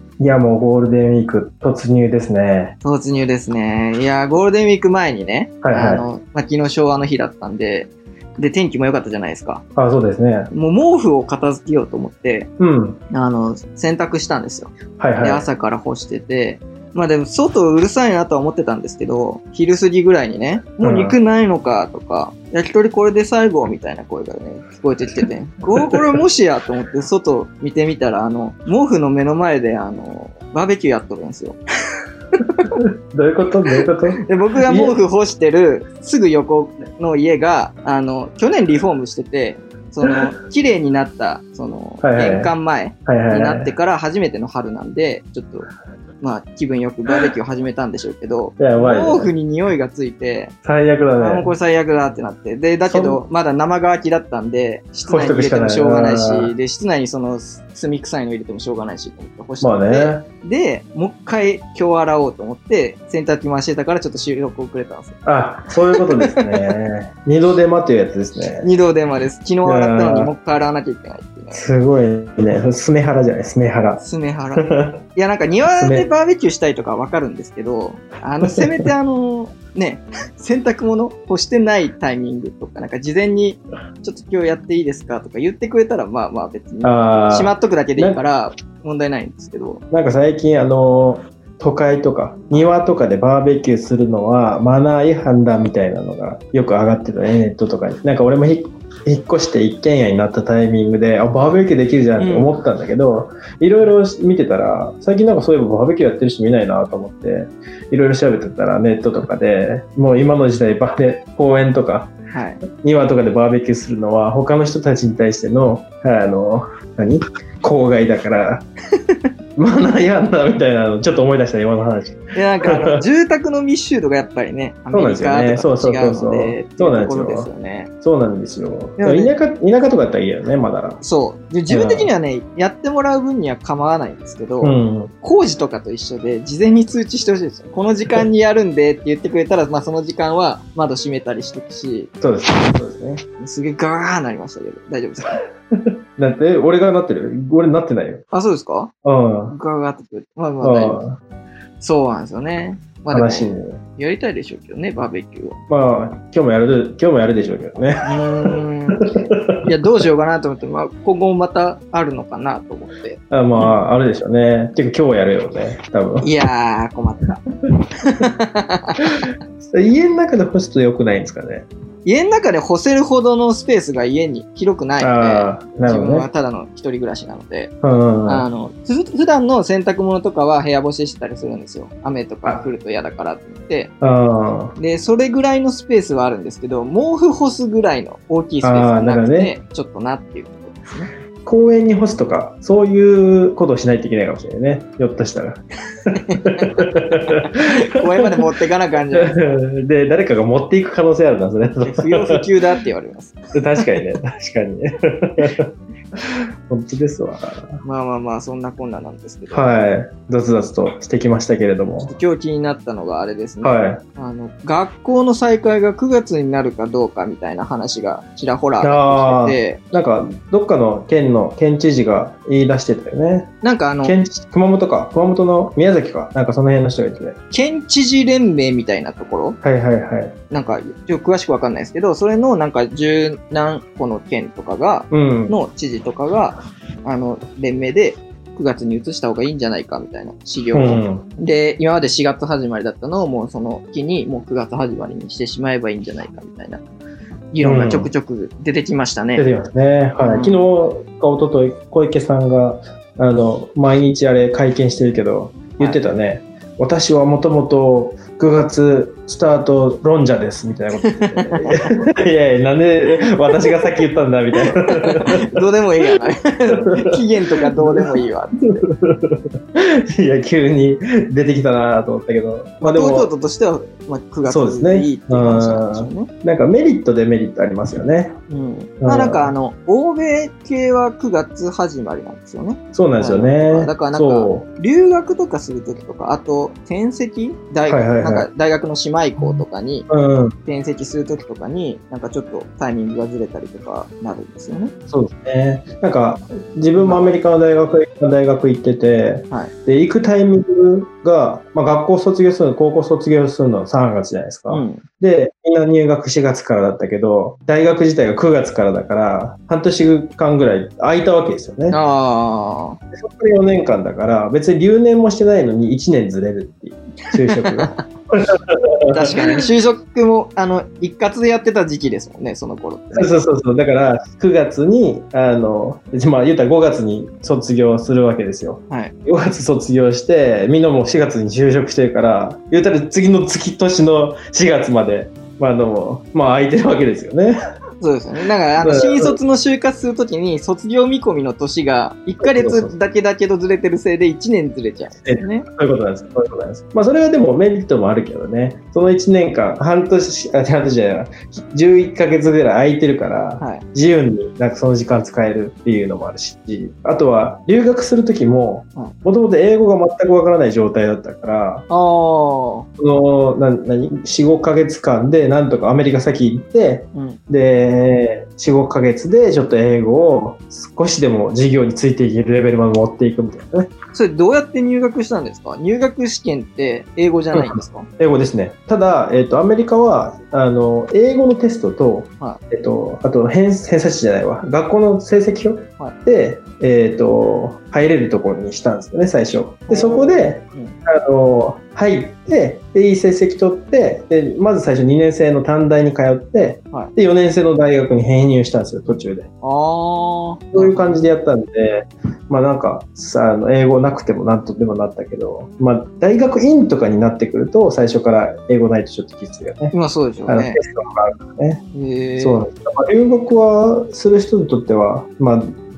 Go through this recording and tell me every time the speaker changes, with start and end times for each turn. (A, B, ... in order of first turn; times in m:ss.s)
0:00.2-0:02.8 A
0:02.8-0:09.6 B
0:05.6-0:06.0 A
0:09.8-0:10.5 A
0:10.5-0:12.5 B
0:12.6-0:13.0 A
0:13.1-0:31.6 B
0:15.0-0:15.4 A
0:20.8-0:21.2 A
0:32.7-0:34.9 A
0:34.2-0:45.7 B
0:42.0-0:42.5 A
0:43.0-0:43.7 A
0:46.2-0:50.5 B
0:48.6-0:49.3 A
0:50.6-0:51.5 A
0:51.2-1:05.2 B
0:52.9-0:53.2 A
0:55.1-0:56.5 A
0:59.6-1:00.2 A
1:05.2-1:08.7 A
1:06.2-1:06.5 B
1:08.6-1:11.6 B
1:09.6-1:10.3 A
1:11.5-1:14.0 A
1:14.0-1:29.8 B
1:14.6-1:15.0 A
1:15.8-1:16.1 A
1:26.8-1:28.2 A
1:29.9-1:52.1 A
1:42.2-1:42.5 B
1:52.3-1:52.6 B
1:52.7-1:58.6 A
1:59.6-2:03.0 A
2:02.3-2:07.9 B
2:04.9-2:07.5 A
2:08.0-2:11.0 A
2:09.0-2:09.3 B
2:11.0-2:22.1 B
2:11.7-2:12.1 A
2:14.6-2:15.1 A
2:22.2-2:23.2 A
2:23.4-2:25.4 B
2:25.2-2:28.2 A
2:28.3-2:28.9 B
2:29.0-2:29.5 A
2:29.5-2:31.0 B
2:30.6-2:31.1 A
2:31.8-2:35.6 B
2:33.1-2:33.8 A
2:35.7-2:39.6 A
2:38.0-2:43.8 B
2:43.3-2:46.3 A
2:46.2-2:47.4 B
2:48.2-2:49.0 B
2:49.6-2:51.6 A
2:52.0-2:57.7 B
2:55.0-2:56.3 A
2:57.8-2:58.4 A
2:58.2-3:03.9 B
3:04.0-3:04.7 A
3:04.8-3:11.1 B
3:08.6-3:09.5 A
3:11.4-3:17.6 A
3:16.1-3:16.9 B
3:17.4-3:19.6 B
3:19.1-3:22.4 A
3:21.8-3:23.8 B
3:23.5-3:25.7 A
3:26.7-3:27.8 A
3:27.8-3:29.7 B
3:29.5-3:32.1 A
3:32.0-3:39.8 B
3:33.6-3:34.0 A
3:38.8-3:43.5 A
3:43.6-3:44.2 B
3:44.0-3:47.4 A
3:47.5-3:49.6 B
3:49.6-3:50.3 A
3:50.5-4:06.8 B
3:55.1-3:55.5 A
4:00.7-4:01.2 A
4:07.5-4:09.5 B
4:07.6-4:08.1 A
4:09.3-4:25.4 A
4:10.2-4:10.6 B
4:21.0-4:21.8 B
4:24.7-4:28.8 B
4:26.7-4:27.0 A
4:27.7-4:33.3 A
4:32.8-4:36.3 B
4:34.4-4:38.3 A
4:38.5-4:50.1 B
4:39.0-4:39.5 A
4:42.9-4:44.6 A
4:47.8-4:48.5 A
4:49.4-4:50.5 A
4:50.6-4:54.9 B
4:55.1-5:12.0 A
4:57.0-4:57.3 B
5:04.7-5:05.0 B
5:11.9-5:13.0 B
5:13.1-5:19.1 A
5:17.3-5:18.0 B
5:19.1-5:23.4 B
5:23.1-5:37.6 A
5:28.9-5:29.1 B
5:38.0-5:45.6 B
5:38.8-5:39.4 A
5:42.4-5:42.9 A
5:45.2-6:01.8 A
5:53.6-5:53.8 B
6:01.9-6:02.9 B
6:03.0-6:13.9 A
6:07.1-6:07.4 B
6:14.1-6:18.1 B
6:17.5-6:39.4 A
6:29.9-6:31.0 B
6:39.6-6:41.2 B
6:40.7-6:49.9 A
6:49.9-6:50.8 B
6:50.5-6:51.8 A
6:51.9-6:52.6 B
6:52.4-6:55.7 A